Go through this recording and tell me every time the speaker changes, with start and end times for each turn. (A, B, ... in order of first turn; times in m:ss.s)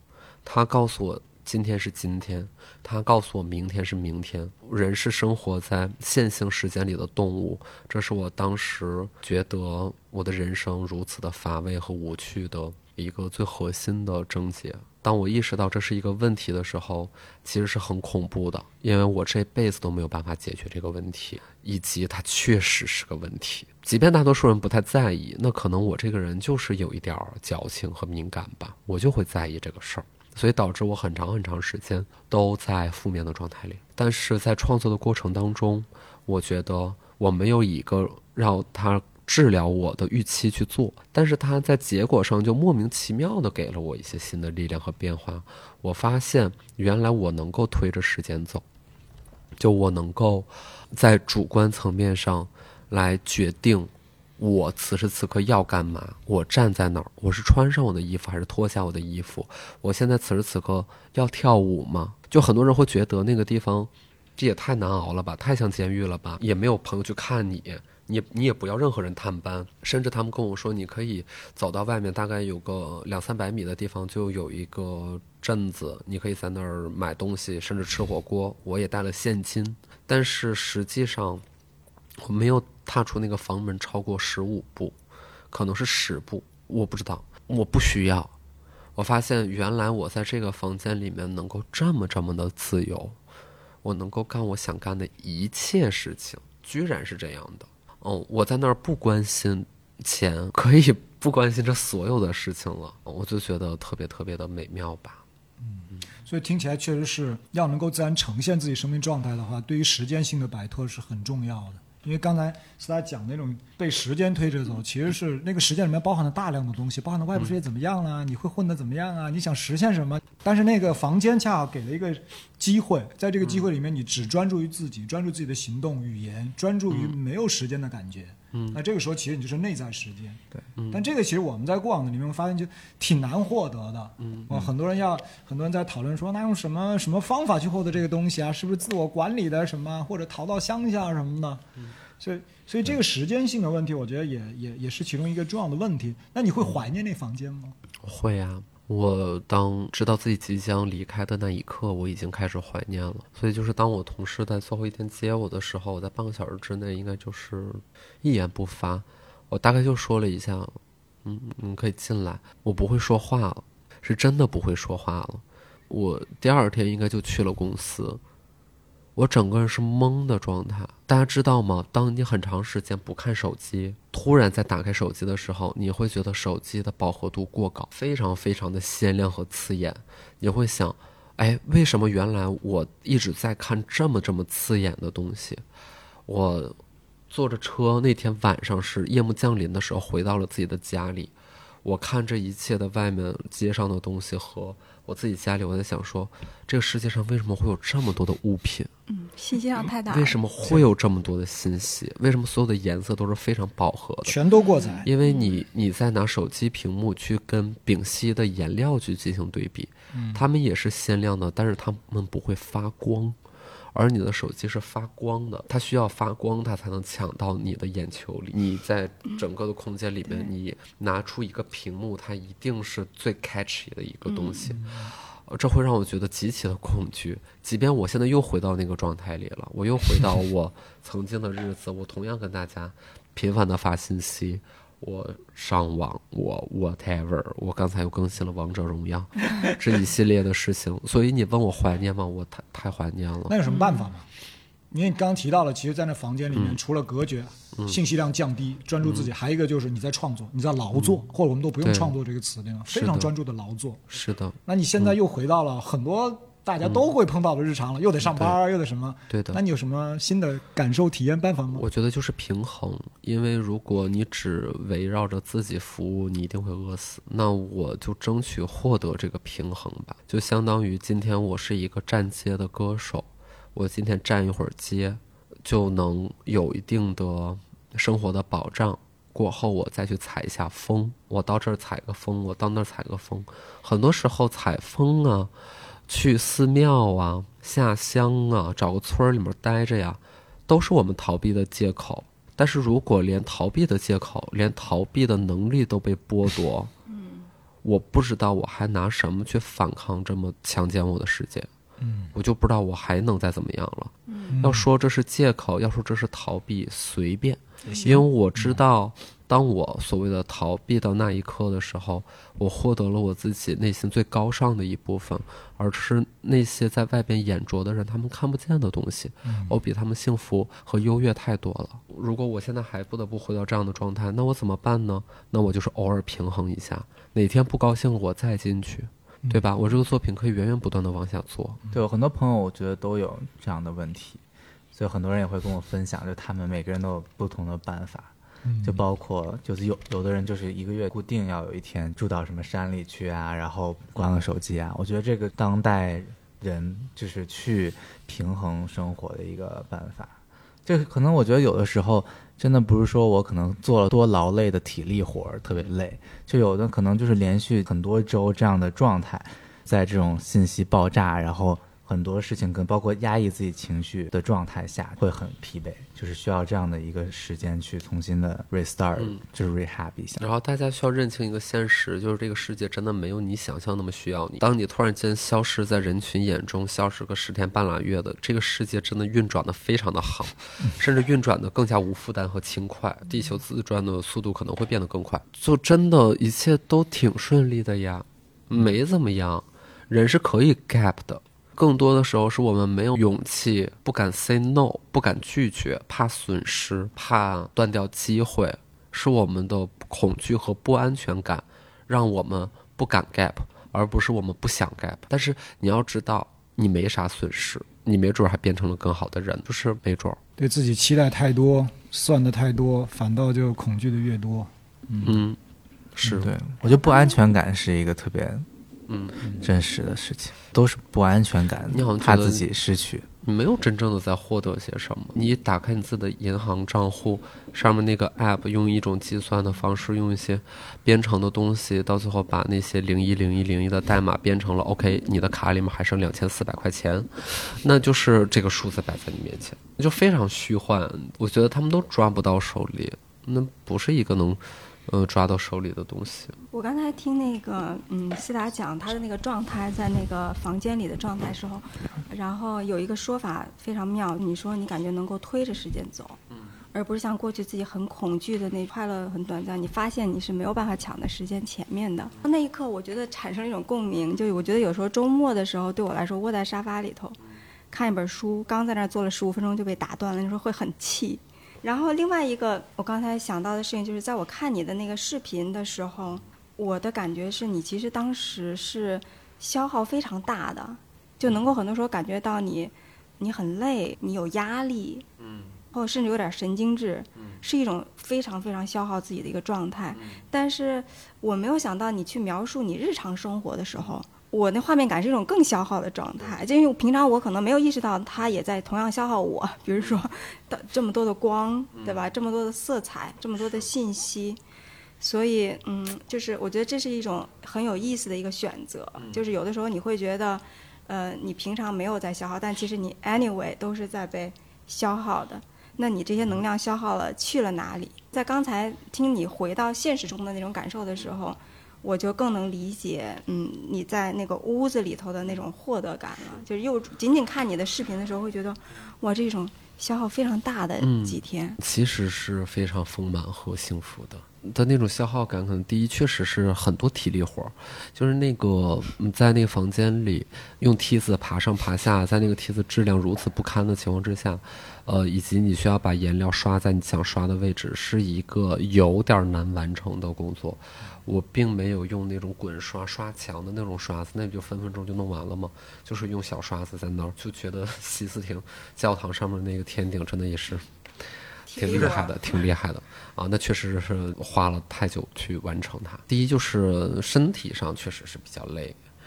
0:00.4-0:48.6 A
0:49.6-1:21.4 A
1:22.2-1:25.0 A
1:25.5-1:28.3 A
1:29.0-1:33.2 A
1:33.8-1:45.2 A
1:45.6-2:21.6 B
2:03.4-2:03.7 A
2:06.9-2:07.2 A
2:08.5-2:08.8 A
2:10.8-2:11.1 A
2:14.2-2:14.7 A
2:22.2-2:27.8 B
2:28.0-2:48.2 A
2:49.2-3:05.6 A
3:06.3-3:06.8 A
3:07.3-3:18.9 A
3:19.1-3:20.4 C
3:20.1-3:24.4 A
3:24.2-3:25.1 B
3:24.5-3:25.6 C
3:25.0-3:33.4 A
3:30.1-3:30.4 B
3:33.9-4:03.6 A
3:40.2-3:40.5 C
3:44.2-3:44.6 C
3:44.7-3:45.1 B
4:03.5-4:04.3 B
4:03.6-4:04.1 C
4:04.9-4:14.0 B
4:06.5-4:06.8 A
4:09.0-4:09.3 A
4:10.9-4:11.2 A
4:11.8-4:12.2 A
4:12.9-4:13.3 A
4:14.1-4:15.2 A
4:14.6-4:21.8 B
4:18.2-4:18.6 A
4:19.3-4:19.6 A
4:21.7-4:45.5 A
4:46.1-4:56.9 A
4:57.1-4:57.5 C
4:57.8-5:01.7 A
5:02.0-5:02.3 B
5:02.3-5:31.8 A
5:04.3-5:04.6 C
5:04.5-5:04.9 B
5:07.8-5:08.2 C
5:07.8-5:08.8 B
5:19.4-5:19.7 B
5:31.9-5:34.4 D
5:34.9-6:10.5 D
5:38.6-5:39.0 B
6:10.4-6:50.4 A
6:50.6-6:55.4 B
6:55.2-6:55.6 A
6:56.2-6:56.5 A
6:56.2-6:58.6 D
6:56.8-6:57.4 C
6:59.1-6:59.4 A
6:59.4-7:03.3 D
7:01.9-7:02.6 A
7:03.4-7:26.6 A
7:26.7-7:36.4 C
7:36.9-7:47.4 C
7:47.9-8:05.2 C
8:05.4-8:05.8 A
8:05.9-8:24.6 C
8:10.1-8:10.4 A
8:25.2-8:51.8 C
8:51.0-9:20.9 A
9:21.7-9:22.6 C
9:21.7-9:29.0 A